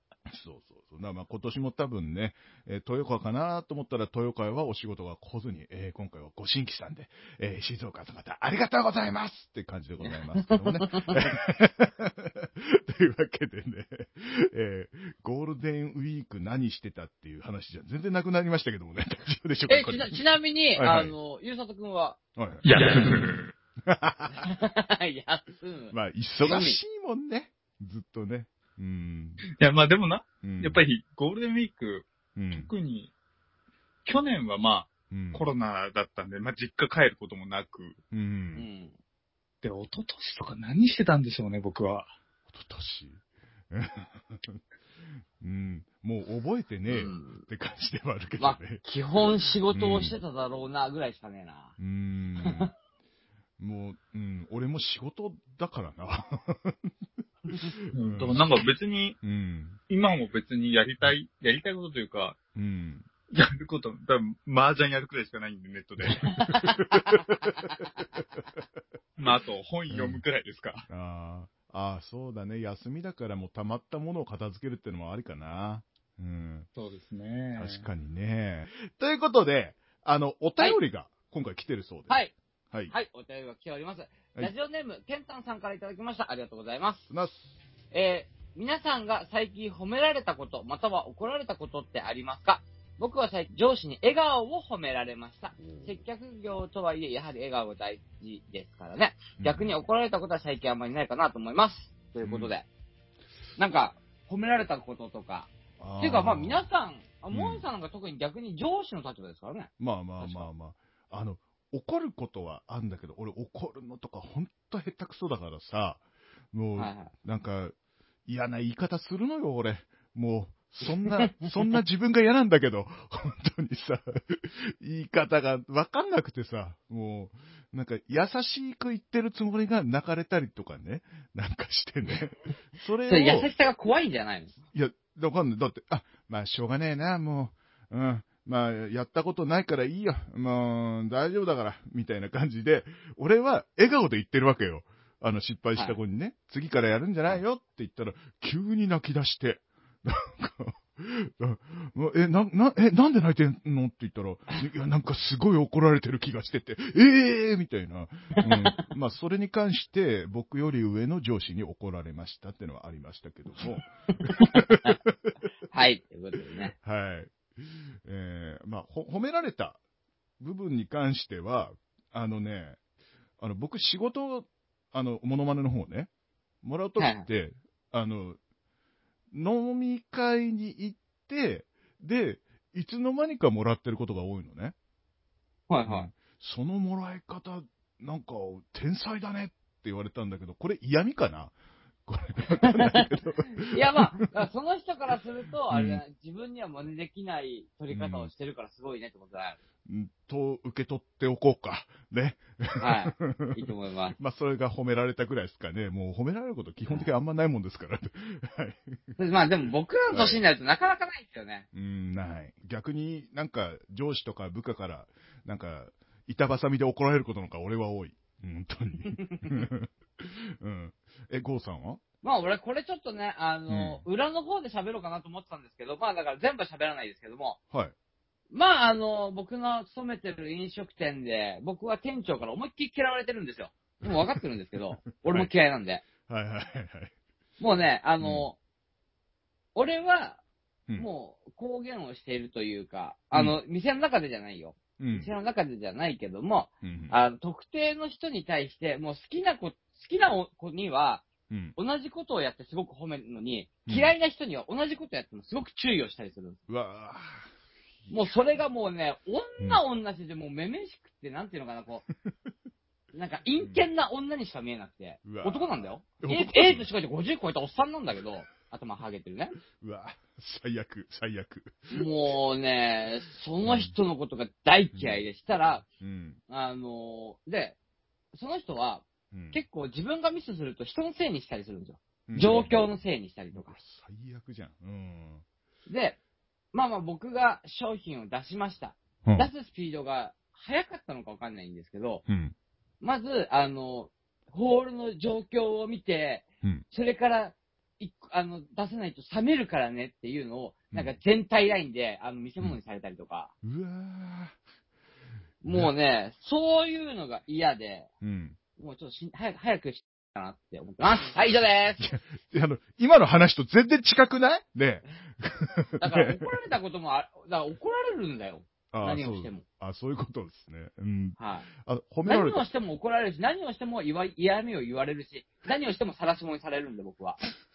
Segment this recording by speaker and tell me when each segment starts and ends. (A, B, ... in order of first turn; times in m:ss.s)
0:00.3-0:20.2 A
0:10.0-0:11.2 B
0:19.7-0:22.2 B
0:20.7-0:21.1 A
0:22.4-0:23.2 A
0:22.6-0:23.5 C
0:23.8-0:24.5 A
0:24.3-0:26.8 B
0:25.9-0:29.4 A
0:29.6-0:33.1 C
0:30.4-0:30.8 A
0:32.4-0:32.7 A
0:34.0-0:38.0 C
0:35.1-0:35.4 A
0:38.1-0:38.6 A
0:38.5-0:38.9 B
0:39.6-0:42.1 C
0:42.5-0:44.6 A
0:45.4-0:48.8 A
0:46.9-0:47.4 B
0:48.4-0:51.7 B
0:49.7-0:50.2 A
0:51.8-0:52.7 A
0:52.4-0:52.7 B
0:53.6-0:56.9 A
0:57.5-0:58.4 A
0:57.9-0:59.2 C
0:59.2-0:59.8 A
0:59.9-1:02.4 C
1:02.5-1:03.1 A
1:03.3-1:06.5 C
1:06.0-1:08.6 A
1:06.4-1:07.2 B
1:09.2-1:10.9 C
1:09.9-1:10.2 A
1:10.9-1:16.7 A
1:16.7-1:17.9 C
1:17.5-1:22.9 A
1:22.1-1:22.3 B
1:22.9-1:27.1 B
1:27.1-1:27.5 A
1:27.9-1:42.6 B
1:35.6-1:36.0 A
1:39.4-1:39.7 A
1:42.2-1:42.5 A
1:43.6-1:50.5 B
1:45.8-1:46.6 A
1:47.3-1:47.6 A
1:49.8-1:57.7 A
1:56.8-1:57.1 B
1:58.3-2:13.5 A
2:01.2-2:01.4 B
2:13.1-2:14.6 B
2:14.7-2:45.2 A
2:38.4-2:38.8 B
2:44.1-2:45.0 B
2:45.7-2:46.7 B
2:46.7-2:49.8 A
2:50.4-2:52.8 A
2:53.4-2:56.1 A
2:56.6-2:58.4 A
2:57.0-2:57.3 B
2:59.3-3:04.7 A
3:05.7-3:06.1 B
3:05.8-3:11.5 A
3:12.1-3:14.0 A
3:12.6-3:13.1 B
3:13.7-3:19.6 B
3:15.7-3:16.0 A
3:17.9-3:18.3 A
3:19.8-3:29.1 A
3:22.8-3:24.2 B
3:29.2-3:31.6 B
3:30.1-3:30.4 A
3:31.7-3:42.0 A
3:39.1-3:39.6 B
3:42.2-3:47.6 B
3:43.7-3:44.0 A
3:48.5-3:56.0 B
3:54.0-3:54.4 A
3:56.3-3:57.1 A
3:57.6-3:58.6 B
3:58.2-3:58.5 A
3:59.7-4:00.4 B
4:01.0-4:16.6 B
4:05.0-4:05.3 A
4:06.8-4:07.1 A
4:11.5-4:11.7 A
4:13.8-4:14.1 A
4:16.7-4:17.5 A
4:18.1-4:22.0 B
4:23.1-4:29.6 B
4:23.6-4:23.8 A
4:25.2-4:26.9 A
4:29.8-4:32.0 A
4:31.9-4:35.8 B
4:33.6-4:33.9 A
4:34.9-4:35.2 A
4:35.8-4:36.4 A
4:36.5-4:37.8 B
4:38.3-4:43.8 B
4:39.3-4:39.6 A
4:42.3-4:42.9 A
4:43.5-4:45.4 A
4:45.9-4:46.2 B
4:46.7-4:52.2 B
4:49.2-4:49.5 A
4:52.3-4:52.5 A
4:53.0-5:03.5 B
5:03.6-5:04.6 A
5:05.6-5:08.1 B
5:05.6-5:05.9 A
5:08.2-5:08.6 A
5:08.8-5:12.1 B
5:12.0-5:16.5 A
5:16.0-5:19.6 B
5:18.9-5:22.6 A
5:21.4-5:21.7 B
5:22.2-5:27.4 B